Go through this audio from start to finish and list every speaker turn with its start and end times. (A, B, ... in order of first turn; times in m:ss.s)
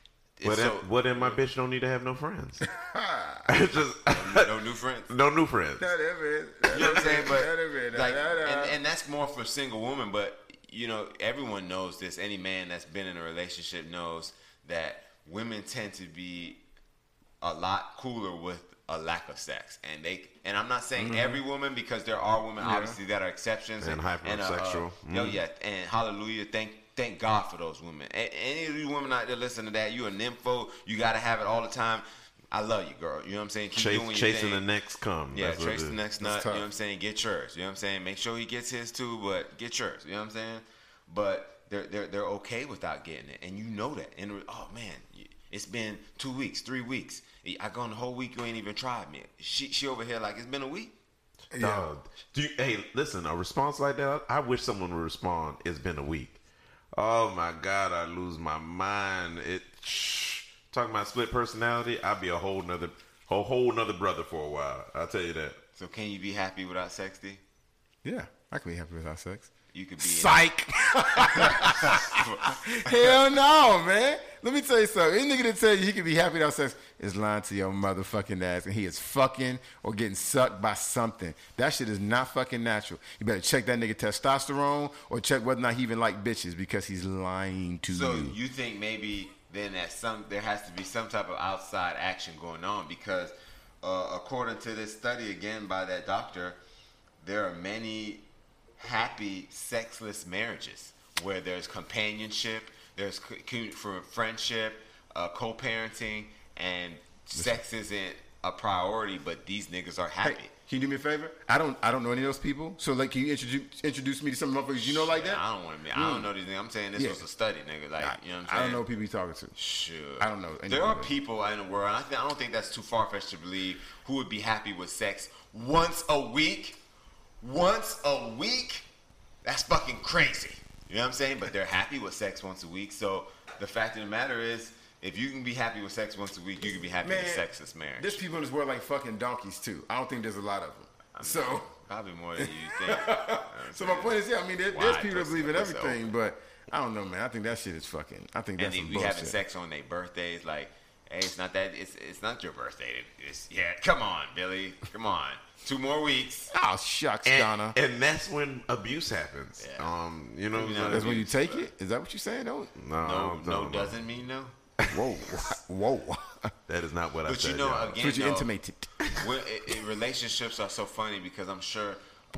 0:00.4-0:01.4 A
0:00.4-0:02.6 B
0:02.7-0:03.5 C
0:03.5-0:04.5 B
0:04.1-0:05.1 A
0:05.1-0:05.8 B
0:05.8-0:08.8 C
0:06.7-0:16.6 A
0:17.4-0:34.6 A
0:21.0-0:21.4 C
0:22.6-0:23.0 C
0:23.8-0:25.4 B
0:33.8-0:36.0 B
0:35.3-0:50.9 A
0:36.2-0:36.6 C
0:51.5-0:51.9 C
0:51.6-0:56.4 B
0:56.9-1:05.6 B
1:05.8-1:07.4 A
1:08.0-1:28.4 C
1:09.7-1:10.5 A
1:11.0-1:13.1 A
1:27.9-1:36.6 A
1:37.2-1:38.2 A
1:38.8-1:50.5 A
1:47.3-1:47.6 C
1:50.2-1:55.4 C
1:54.8-1:58.8 A
1:55.9-1:56.3 C
1:57.0-1:57.2 C
1:58.0-1:59.5 C
1:59.6-2:06.8 A
2:00.2-2:01.1 C
2:07.4-2:08.8 A
2:09.4-2:18.2 A
2:17.0-2:17.4 C
2:18.0-2:21.7 C
2:21.1-2:26.1 A
2:22.4-2:29.4 C
2:28.6-2:36.5 A
2:36.5-2:37.8 C
2:37.2-2:41.1 B
2:39.6-2:39.9 A
2:40.5-2:41.7 A
2:40.9-2:42.8 C
2:42.8-2:44.0 B
2:43.0-2:44.6 A
2:44.9-2:46.5 C
2:46.7-2:48.0 B
2:47.2-2:48.5 A
2:48.0-2:49.2 C
2:49.1-2:52.0 A